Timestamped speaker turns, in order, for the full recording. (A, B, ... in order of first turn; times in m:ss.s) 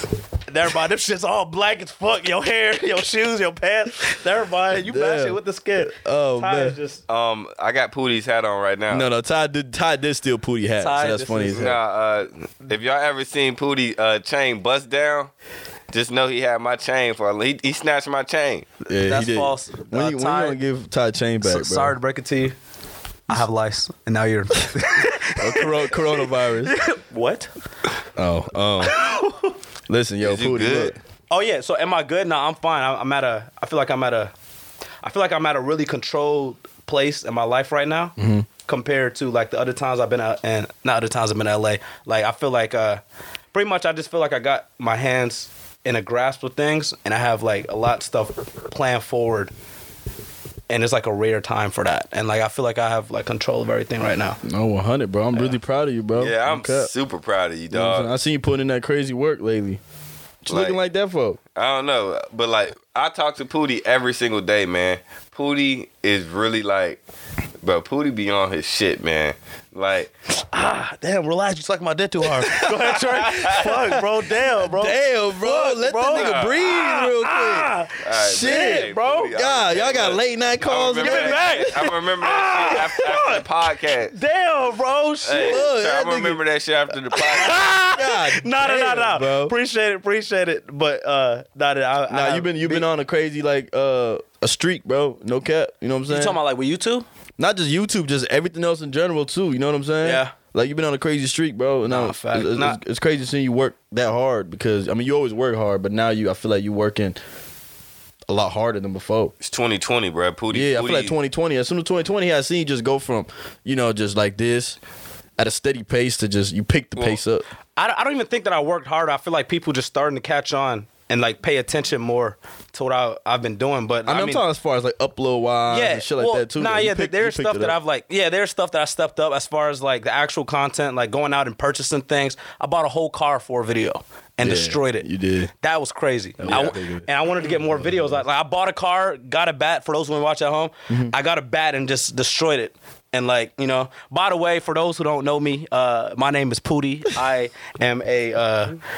0:00.5-0:07.0 A
0:04.8-0:06.8 B
0:07.1-0:09.1 C
0:08.9-0:11.8 B
0:10.8-0:11.7 A
0:11.5-0:15.3 C
0:15.9-0:18.7 C
0:18.9-0:20.6 A
0:18.9-0:22.0 B
0:21.4-0:22.6 A
0:23.3-0:27.5 A
0:25.1-0:26.8 B
0:28.2-0:29.0 B
0:28.8-0:29.5 A
0:29.9-0:31.0 B
0:30.2-0:31.0 C
0:31.3-0:34.3 A
0:35.0-0:43.0 A
0:38.2-0:38.5 B
0:43.5-0:49.5 A
0:50.7-0:54.4 A
0:54.4-0:56.9 B
0:56.2-0:58.1 C
0:57.7-0:59.8 B
1:00.4-1:01.4 B
1:00.5-1:00.8 C
1:01.6-1:07.0 C
1:07.6-1:10.1 C
1:10.5-1:19.3 A
1:13.3-1:13.6 C
1:13.4-1:14.0 B
1:14.6-1:21.8 B
1:16.1-1:16.6 C
1:18.0-1:24.2 C
1:21.0-1:23.4 A
1:24.1-1:25.6 A
1:25.3-1:27.6 C
1:25.4-1:26.4 B
1:27.1-1:32.9 A
1:27.8-1:29.6 B
1:32.1-1:36.4 B
1:36.1-1:37.1 A
1:37.4-1:47.2 B
1:40.0-1:40.3 A
1:41.9-1:42.8 A
1:48.3-1:49.3 B
1:49.4-1:51.2 C
1:50.5-1:54.8 B
1:55.4-1:57.4 B
1:57.8-2:04.4 A
2:04.1-2:07.8 B
2:05.7-2:15.1 A
2:14.4-2:15.5 B
2:15.6-2:28.8 A
2:16.4-2:18.2 B
2:20.9-2:21.1 B